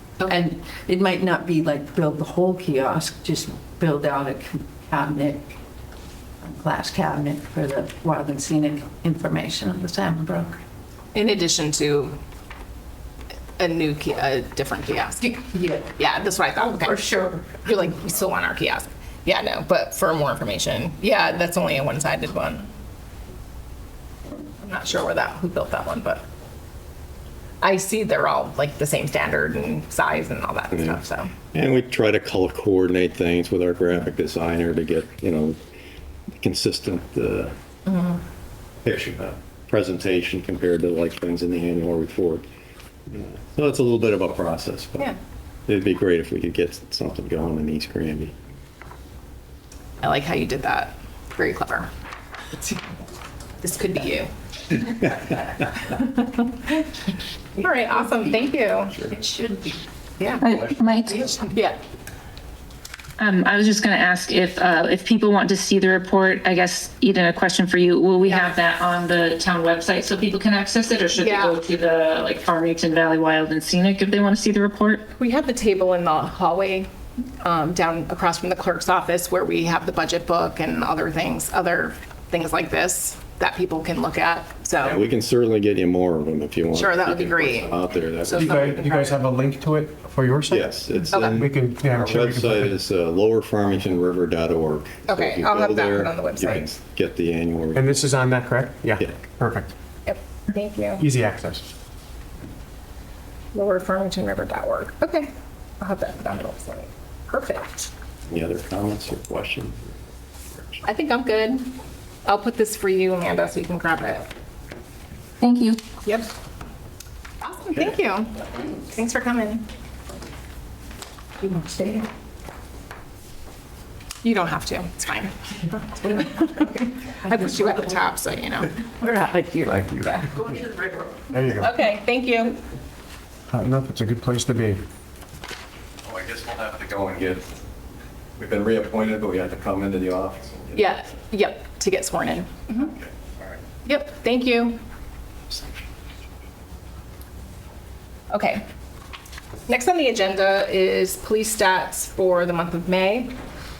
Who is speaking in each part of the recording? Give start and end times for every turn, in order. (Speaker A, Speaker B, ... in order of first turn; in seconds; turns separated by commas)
Speaker A: 0.2-5.5, Speaker A: 6.4-10.5, Speaker B: 11.1-12.2, Speaker B: 13.6-15.3, Speaker A: 15.2-16.0, Speaker B: 15.9-22.7, Speaker A: 16.6-17.6, Speaker B: 24.6-26.2, Speaker B: 27.6-31.3, Speaker C: 30.7-31.0, Speaker C: 31.5-35.6, Speaker C: 36.4-37.5, Speaker B: 37.9-38.2, Speaker C: 38.8-42.4, Speaker C: 43.1-45.1, Speaker C: 45.7-48.3, Speaker B: 50.0-51.9, Speaker B: 53.6-55.4, Speaker B: 56.0-56.2, Speaker B: 57.6-59.1, Speaker A: 59.1-60.4, Speaker D: 60.4-61.2, Speaker B: 61.2-61.8, Speaker D: 63.2-75.0, Speaker B: 68.2-68.5, Speaker B: 71.2-71.6, Speaker B: 75.2-76.9, Speaker B: 77.4-85.0, Speaker C: 84.8-88.8, Speaker B: 86.7-89.2, Speaker E: 88.3-92.8, Speaker C: 90.5-98.1, Speaker B: 91.1-91.4, Speaker B: 95.1-96.7, Speaker E: 97.7-99.7, Speaker B: 100.0-101.0, Speaker E: 101.0-101.7, Speaker B: 103.5-107.9, Speaker C: 108.3-110.0, Speaker C: 110.5-110.8, Speaker B: 110.8-114.3, Speaker D: 115.4-115.8, Speaker B: 116.0-116.3, Speaker B: 117.4-119.6, Speaker A: 121.4-122.0, Speaker B: 124.2-128.7, Speaker A: 129.0-130.4, Speaker E: 131.3-131.7, Speaker B: 131.6-132.6, Speaker E: 133.5-134.8, Speaker C: 136.0-137.5, Speaker C: 138.4-140.9, Speaker B: 140.7-142.9, Speaker C: 142.8-143.5, Speaker B: 143.8-144.8, Speaker B: 148.3-148.6, Speaker B: 149.7-153.3